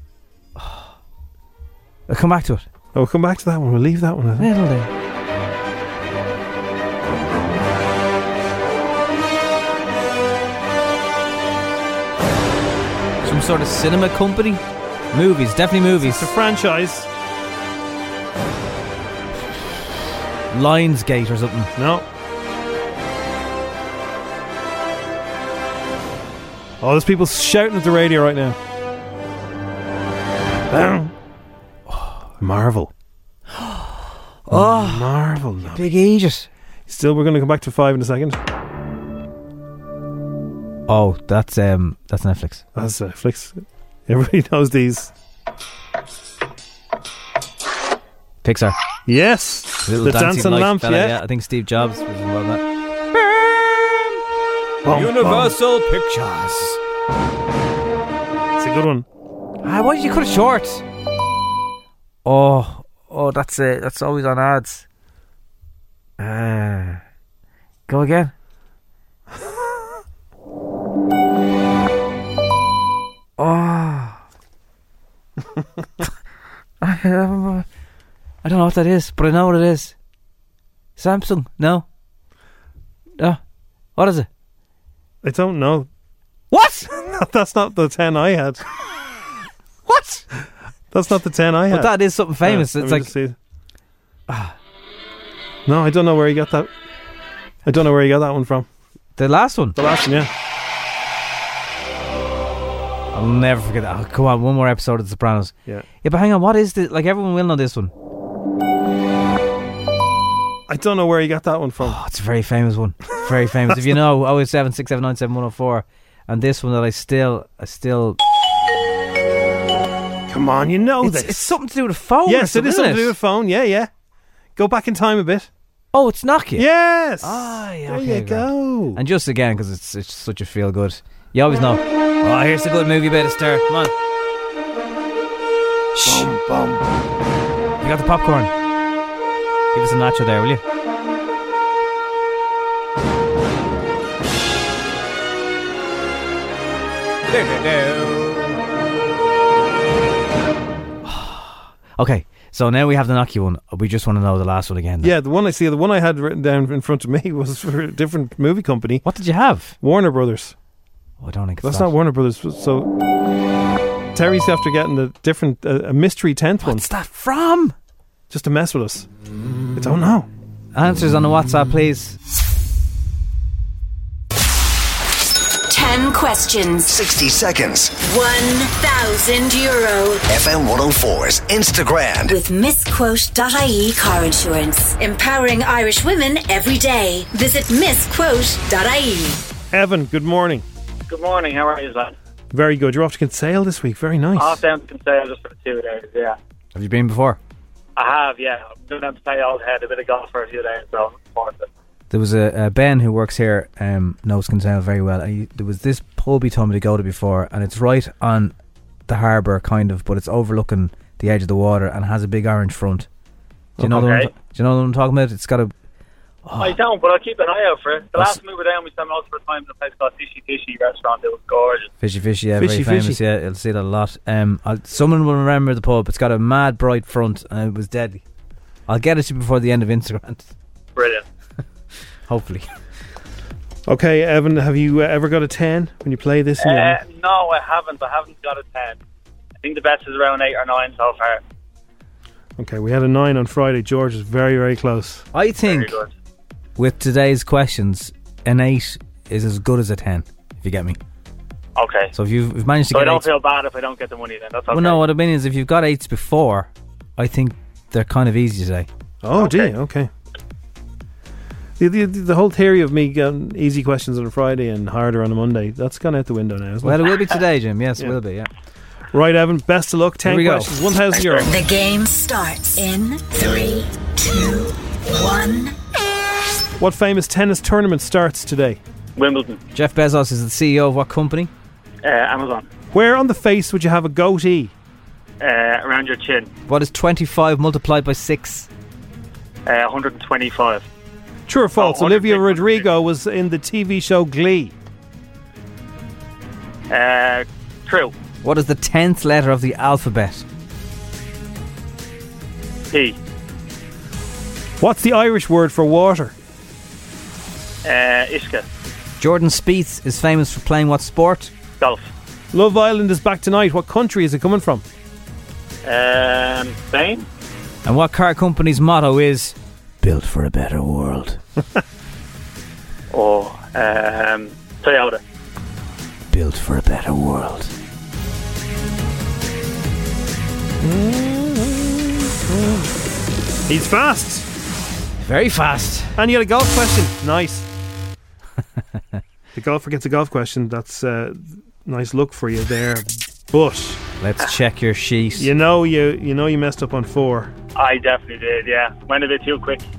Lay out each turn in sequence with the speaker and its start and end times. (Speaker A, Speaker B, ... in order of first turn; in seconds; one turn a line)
Speaker A: 0.6-0.9
Speaker A: 2.1-2.6
Speaker B: 2.9-4.5
Speaker A: 4.4-4.9
Speaker A: 13.2-16.3
Speaker B: 16.0-17.1
Speaker A: 20.5-21.7
Speaker B: 21.8-22.1
Speaker B: 26.8-28.6
Speaker B: 30.7-31.1
Speaker A: 31.9-32.2
Speaker B: 32.4-32.9
Speaker A: 33.5-33.9
Speaker A: 34.5-35.1
Speaker B: 34.5-35.9
Speaker A: 35.7-36.5
Speaker B: 36.9-38.4
Speaker A: 40.9-42.6
Speaker B: 42.7-45.1
Speaker A: 48.4-48.8
Speaker B: 49.1-51.2
Speaker A: 49.8-54.1
Speaker B: 54.8-55.5
Speaker A: 54.9-56.8
Speaker B: 58.6-59.0
Speaker A: 59.6-60.8
Speaker A: 62.2-64.8
Speaker A: 66.2-67.0
Speaker A: 67.9-68.3
Speaker A: 73.4-74.2
Speaker A: 76.8-77.7
Speaker A: 78.4-79.9
Speaker A: 81.0-81.9
Speaker A: 84.0-84.3
Speaker B: 85.2-85.9
Speaker A: 86.5-86.9
Speaker B: 86.9-88.6
Speaker A: 89.9-90.2
Speaker B: 90.9-93.4
Speaker A: 91.7-93.1
Speaker A: 94.3-94.5
Speaker B: 95.7-96.7
Speaker B: 97.6-98.7
Speaker A: 99.2-99.8
Speaker B: 99.8-100.3
Speaker A: 103.1-107.9
Speaker B: 110.7-112.0
Speaker A: 111.8-118.2
Speaker B: 113.7-113.9
Speaker B: 120.3-121.6
Speaker A: 121.0-123.1
Speaker B: 122.2-123.9
Speaker B: 124.6-125.5
Speaker A: 125.9-126.7
Speaker B: 126.6-129.0
Speaker A: 127.2-133.9
Speaker A: 135.9-136.3
Speaker B: 136.1-136.8
Speaker A: 137.8-138.5
Speaker A: 139.7-140.6
Speaker A: 147.3-148.5
Speaker A: 151.0-155.1
Speaker B: 155.0-159.0
Speaker A: 159.0-159.8
Speaker B: 159.8-160.5
Speaker A: 161.2-161.9
Speaker B: 161.6-162.9
Speaker B: 164.1-166.9
Speaker A: 166.6-167.8
Speaker B: 168.3-169.1
Speaker B: 169.8-170.3
Speaker A: 170.7-172.2
Speaker C: 175.7-176.9
Speaker D: 176.9-178.0
Speaker C: 178.0-180.2
Speaker D: 180.3-182.4
Speaker C: 182.3-189.4
Speaker B: 189.7-190.7
Speaker E: 191.1-192.1
Speaker B: 192.5-194.6
Speaker E: 194.3-196.4
Speaker A: 196.7-197.4
Speaker E: 198.0-201.7
Speaker A: 202.1-208.5
Speaker A: 209.1-213.1
Speaker A: 213.8-215.7
Speaker B: 213.8-214.1
Speaker E: 213.9-214.3
Speaker A: 216.4-216.8
Speaker E: 216.6-221.9
Speaker A: 222.0-228.2
Speaker B: 222.6-223.2
Speaker A: 228.9-230.4
Speaker E: 231.0-231.2
Speaker A: 232.3-232.7
Speaker B: 233.9-237.0
Speaker E: 236.6-239.0
Speaker E: 239.6-241.4
Speaker B: 242.6-245.2
Speaker A: 245.3-245.9
Speaker E: 245.6-246.1
Speaker A: 246.8-251.0
Speaker E: 251.8-252.1
Speaker A: 252.1-253.2
Speaker E: 252.9-255.0
Speaker A: 254.7-258.9
Speaker B: 259.2-260.1
Speaker E: 259.4-259.7
Speaker B: 261.8-267.1
Speaker A: 266.8-268.5
Speaker B: 269.1-271.6
Speaker A: 270.2-270.8
Speaker C: 271.1-275.8
Speaker B: 276.8-278.8
Speaker E: 279.1-279.6
Speaker A: 279.7-281.5
Speaker E: 282.0-282.7
Speaker B: 282.9-284.7
Speaker E: 285.4-286.5
Speaker A: 286.7-288.7
Speaker E: 289.6-290.8
Speaker B: 291.5-294.7
Speaker E: 291.8-292.9
Speaker E: 296.9-298.1
Speaker A: 298.4-300.4
Speaker E: 302.9-303.1
Speaker B: 304.8-306.3
Speaker E: 307.8-308.6
Speaker A: 309.2-311.5
Speaker E: 311.8-312.1
Speaker B: 312.5-314.8
Speaker E: 315.9-317.2
Speaker A: 317.9-321.4
Speaker E: 323.1-325.2
Speaker A: 326.3-327.7
Speaker B: 330.8-332.9
Speaker B: 333.7-334.5
Speaker A: 335.2-336.1
Speaker B: 336.1-337.7
Speaker B: 339.5-344.0
Speaker A: 344.2-345.5
Speaker B: 345.4-347.5
Speaker E: 347.8-349.9